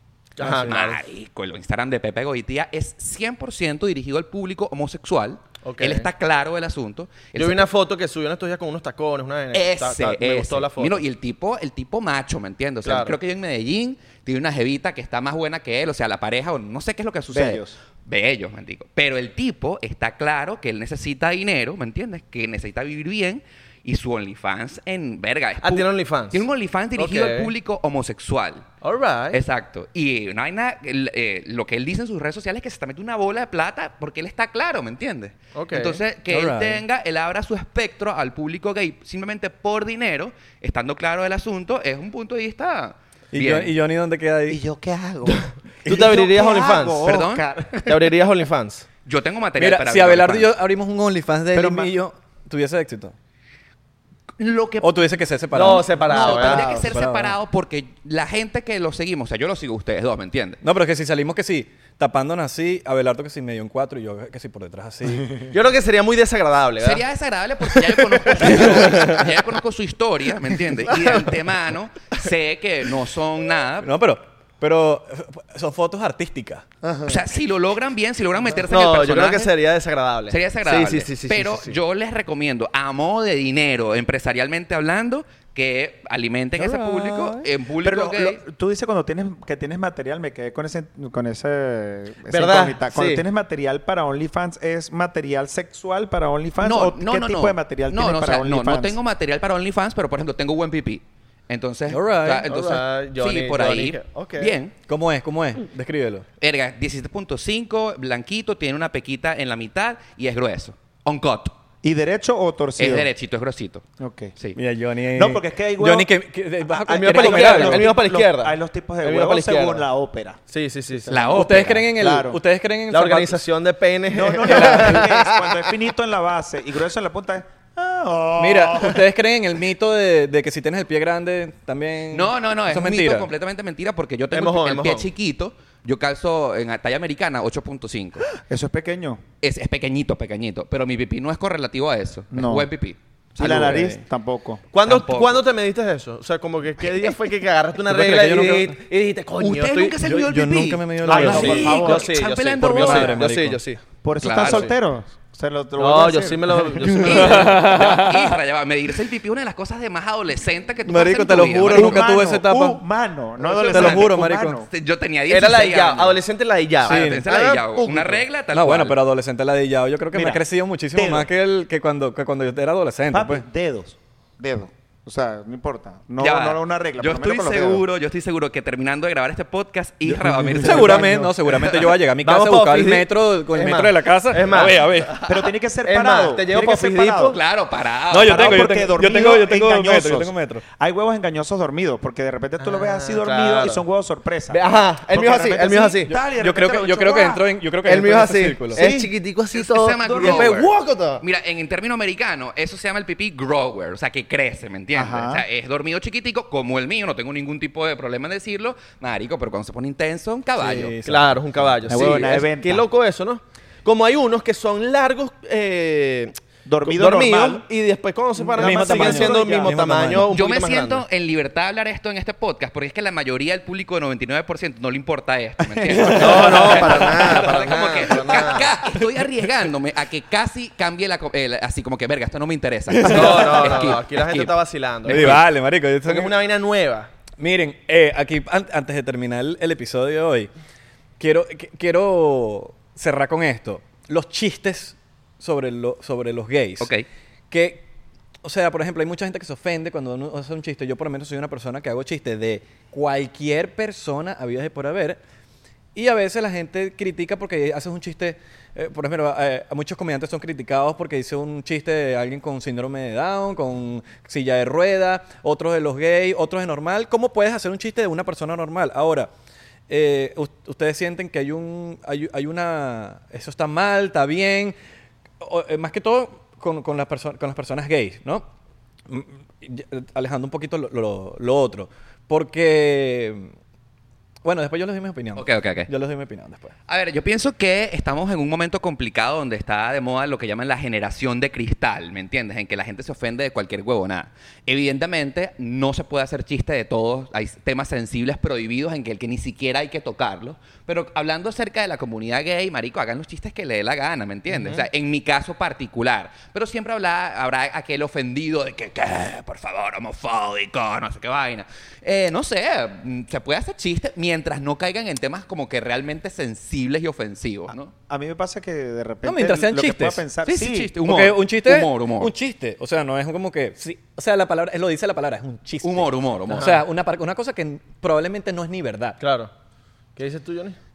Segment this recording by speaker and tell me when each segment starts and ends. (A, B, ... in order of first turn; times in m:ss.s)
0:00.4-0:01.0 A
0:00.4-0:00.7 B
0:00.5-0:07.7 C
0:05.6-0:06.1 A
0:07.3-0:11.0 A
0:09.5-0:28.7 C
0:12.8-0:13.2 A
0:17.3-0:17.8 D
0:25.6-0:26.4 A
0:27.0-0:27.5 A
0:28.8-0:29.4 A
0:29.3-0:43.7 C
0:35.5-0:36.0 A
0:36.3-0:36.8 B
0:43.3-0:44.6 B
0:44.5-0:48.0 D
0:45.2-0:47.2 A
0:47.0-0:47.4 C
0:47.8-0:48.8 A
0:49.0-0:50.5 C
0:49.6-0:53.1 B
0:51.5-0:51.9 D
0:54.4-0:55.0 C
0:54.8-0:57.3 B
0:55.5-0:56.8 A
0:56.0-1:00.6 C
0:56.4-0:56.9 D
1:00.6-1:05.4 B
1:05.5-1:07.0 A
1:06.8-1:13.9 C
1:08.0-1:09.1 A
1:08.4-1:09.2 B
1:10.8-1:11.3 A
1:13.8-1:16.6 B
1:16.8-1:17.1 D
1:17.0-1:19.5 C
1:18.6-1:21.8 A
1:20.3-1:28.4 C
1:26.6-1:27.5 B
1:27.8-1:39.0 D
1:32.3-1:33.2 A
1:36.6-1:44.7 C
1:41.9-1:42.6 B
1:42.4-1:44.6 A
1:44.8-1:46.2 B
1:46.4-1:51.5 C
1:51.8-1:53.1 D
1:52.8-1:53.8 C
1:54.0-1:54.3 D
1:54.6-1:57.9 B
1:55.1-1:56.1 D
1:56.9-1:59.9 A
1:56.9-2:00.4 D
2:00.5-2:01.2 A
2:01.0-2:02.4 D
2:01.1-2:01.9 C
2:01.3-2:03.4 B
2:02.9-2:05.7 A
2:04.1-2:09.0 D
2:04.4-2:05.2 B
2:08.4-2:13.3 B
2:12.1-2:18.2 C
2:14.3-2:15.1 A
2:18.4-2:19.2 D
2:19.4-2:23.8 C
2:22.3-2:22.7 D
2:23.4-2:24.6 D
2:23.4-2:24.0 B
2:24.7-2:30.0 A
2:24.8-2:25.4 C
2:27.9-2:28.8 B
2:29.4-2:33.2 C
2:30.0-2:31.8 B
2:31.0-2:33.8 A
2:31.0-2:32.1 D
2:32.6-2:33.6 B
2:34.0-2:37.3 D
2:34.2-2:34.7 C
2:34.4-2:34.7 A
2:35.8-2:37.7 A
2:36.8-2:38.4 B
2:37.0-2:42.1 C
2:40.9-2:42.8 B
2:41.7-2:44.7 D
2:43.5-2:44.1 C
2:43.6-2:44.6 B
2:44.7-2:46.2 C
2:45.3-2:48.2 A
2:46.8-2:49.0 C
2:46.8-2:47.2 B
2:48.5-2:53.4 B
2:50.1-2:50.4 D
2:50.9-2:51.3 D
2:53.1-2:57.8 D
2:56.2-3:01.9 C
3:00.4-3:05.2 B
3:00.6-3:01.3 D
3:02.2-3:04.9 A
3:05.0-3:05.3 C
3:05.2-3:07.4 D
3:05.8-3:07.4 A
3:07.2-3:08.7 C
3:08.1-3:10.6 B
3:08.2-3:17.4 D
3:12.6-3:13.8 A
3:14.5-3:16.1 A
3:16.1-3:18.8 B
3:17.8-3:21.2 A
3:18.7-3:19.1 D
3:19.5-3:31.0 C
3:20.0-3:20.5 D
3:24.9-3:25.4 D
3:30.6-3:32.1 B
3:31.0-3:41.0 A
3:31.9-3:32.8 D
3:36.6-3:37.6 D
3:38.4-3:39.8 D
3:38.5-3:40.3 B
3:40.3-3:54.5 C
3:45.6-3:46.9 D
3:45.9-3:47.7 B
3:46.1-3:48.7 A
3:48.3-3:49.2 B
3:52.9-3:53.9 B
3:53.0-3:55.4 A
3:55.0-3:55.4 C
3:55.0-3:56.4 B
3:56.0-3:57.1 A
3:57.4-4:00.5 B
4:01.2-4:06.9 B
4:06.8-4:07.0 C
4:07.5-4:07.8 B
4:08.4-4:15.2 B
4:15.9-4:29.3 B
4:29.9-4:34.7 B
4:35.4-4:38.5 B
4:39.1-4:43.5 B
4:44.4-4:46.7 B
4:45.4-4:45.9 C
4:46.9-5:17.9 C
5:04.5-5:04.8 A
5:18.0-5:20.9 D
5:19.2-5:20.2 B
5:20.4-5:22.3 C
5:21.0-5:29.2 B
5:25.8-5:26.7 C
5:26.5-5:26.8 A
5:29.2-5:29.5 A
5:30.2-5:30.8 A